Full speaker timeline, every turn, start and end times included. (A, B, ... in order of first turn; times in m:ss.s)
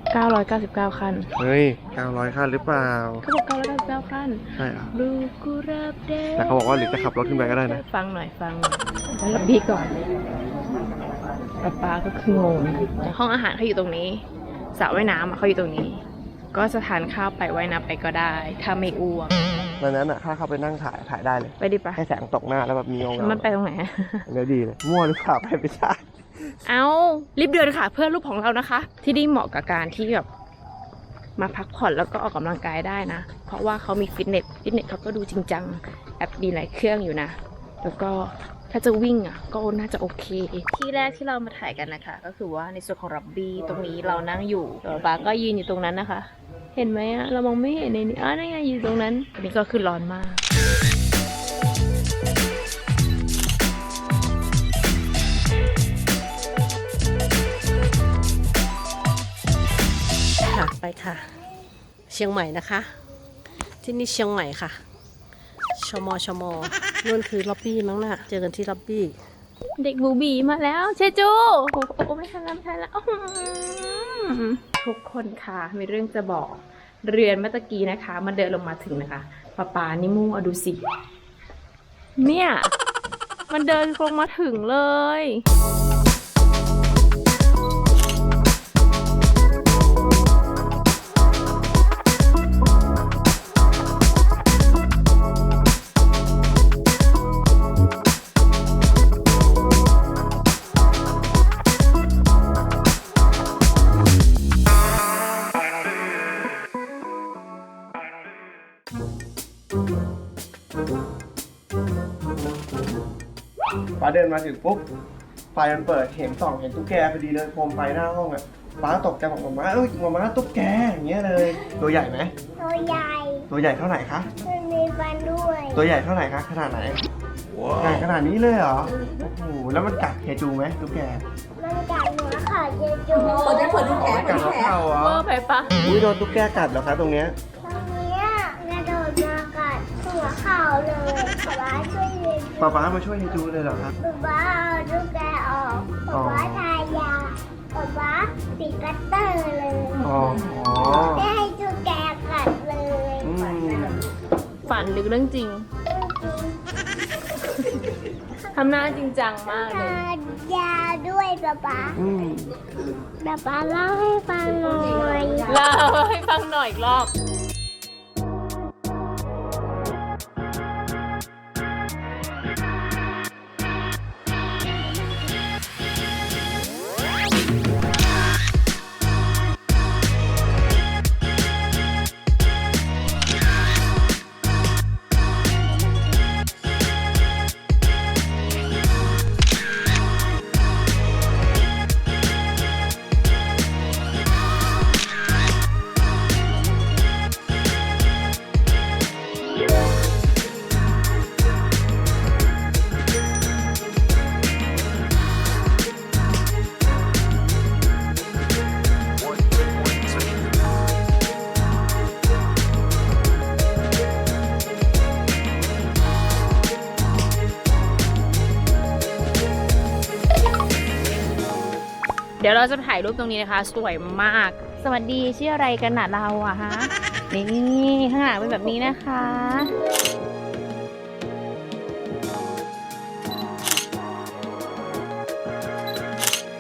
0:00.1-0:01.3 A
0:01.4-0:03.2 B
0:03.2-0:10.0 A
0:04.6-0:05.0 B
0:06.4-0:07.8 B
0:11.6-0:14.2 A
0:14.8-0:19.4 A
0:19.8-0:23.5 B
0:21.6-0:22.0 A
0:23.2-0:24.3 A
0:24.3-0:26.0 B
0:26.6-0:30.3 A
0:31.4-0:50.4 A
1:00.5-1:01.2 C
1:02.1-1:02.8 C
1:03.8-1:04.7 C
1:05.8-1:09.1 C
1:09.8-1:20.8 A
1:22.2-1:22.7 A
1:23.5-1:25.4 A
1:54.0-1:54.8 B
1:55.5-2:02.3 B
2:02.6-2:03.5 D
2:03.5-2:04.3 B
2:04.4-2:05.8 D
2:05.7-2:07.0 B
2:07.8-2:11.2 B
2:11.6-2:14.7 D
2:13.4-2:14.5 C
2:13.8-2:15.2 B
2:14.9-2:15.8 A
2:15.8-2:17.4 B
2:17.6-2:23.0 D
2:22.6-2:24.0 B
2:24.0-2:30.1 D
2:26.1-2:26.6 B
2:30.0-2:31.3 B
2:31.0-2:33.4 D
2:33.2-2:34.0 B
2:34.6-2:35.7 A
2:35.9-2:36.6 D
2:37.5-2:37.8 A
2:38.5-2:40.0 A
2:39.5-2:42.0 D
2:42.0-2:42.6 B
2:43.2-2:45.5 D
2:45.5-2:47.1 A
3:42.4-3:49.7 A